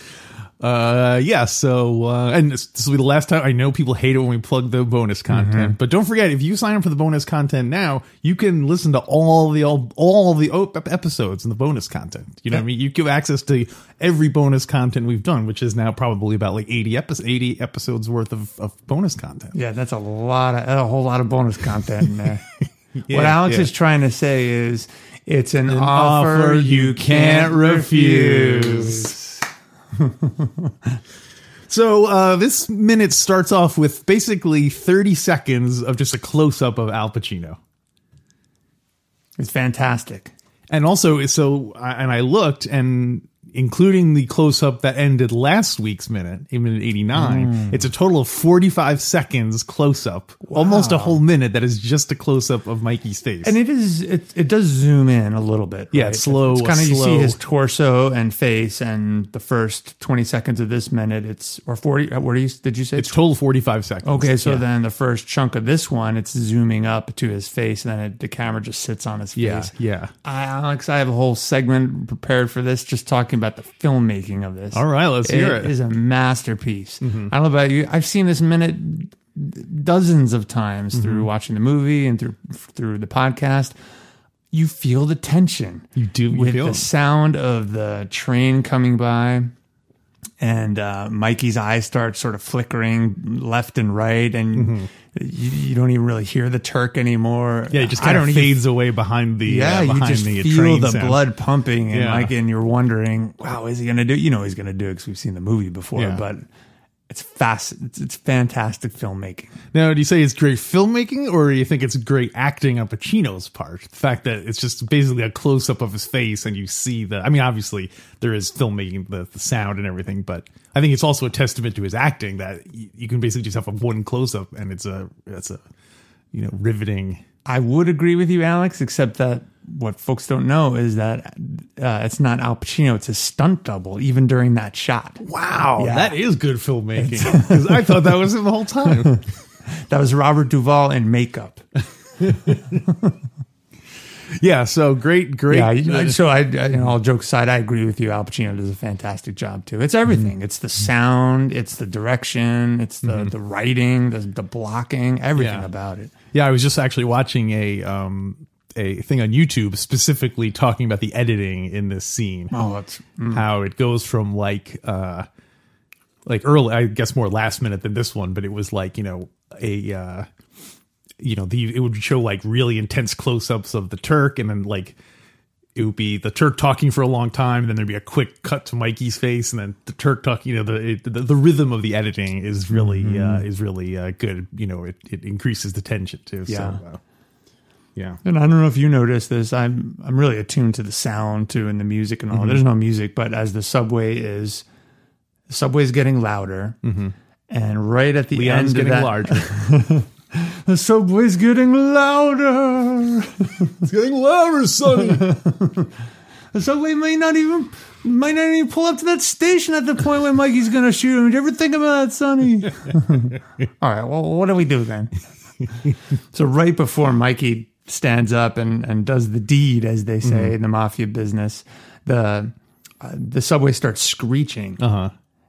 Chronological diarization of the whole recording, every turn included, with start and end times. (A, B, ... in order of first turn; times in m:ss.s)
0:00.6-0:19.5 A
0:05.3-0:05.8 B
0:19.5-0:22.4 B
0:23.0-0:23.7 A
0:23.1-0:29.4 B
0:25.7-0:29.1 A
0:30.0-0:30.7 B
0:31.7-0:37.6 A
0:39.4-0:40.3 B
0:40.7-0:53.5 A
0:47.1-0:47.9 B
0:50.4-0:51.2 B
0:53.4-1:03.2 B
0:55.9-0:57.4 A
1:03.0-1:04.6 A
1:04.0-1:09.7 B
1:09.4-1:10.1 A
1:10.2-1:23.7 B
1:14.7-1:15.7 A
1:17.0-1:17.3 A
1:20.9-1:21.3 A
1:24.5-1:29.5 B
1:26.0-1:26.9 A
1:30.4-1:38.6 B
1:34.5-1:34.9 A
1:37.7-1:41.3 A
1:39.4-1:46.4 B
1:41.9-1:42.3 A
1:46.0-1:46.2 A
1:47.1-1:49.5 B
1:49.7-2:05.6 A
2:06.3-2:07.2 A
2:07.4-2:15.2 B
2:15.2-2:19.2 A
2:15.8-2:16.2 B
2:17.0-2:18.0 B
2:18.9-2:19.2 B
2:19.9-2:21.6 B
2:22.2-2:22.6 A
2:22.6-2:23.1 B
2:24.4-2:26.2 A
2:25.5-2:36.1 B
2:33.0-2:33.3 A
2:35.4-2:35.7 A
2:36.3-2:42.5 A
2:42.5-2:43.4 B
2:43.3-2:45.3 A
2:46.2-2:50.3 A
2:51.2-2:55.0 A
2:55.7-3:07.0 A
3:02.7-3:03.4 B
3:06.5-3:06.8 B
3:08.2-3:14.6 B
3:12.3-3:12.6 A
3:15.5-3:16.8 B
3:16.8-3:17.1 A
3:17.5-3:23.8 B
3:18.3-3:19.5 A
3:23.8-3:25.3 A
3:24.8-3:25.9 B
3:26.5-3:35.1 B
3:36.3-3:44.8 B
3:40.2-3:40.5 A
3:44.8-3:45.1 A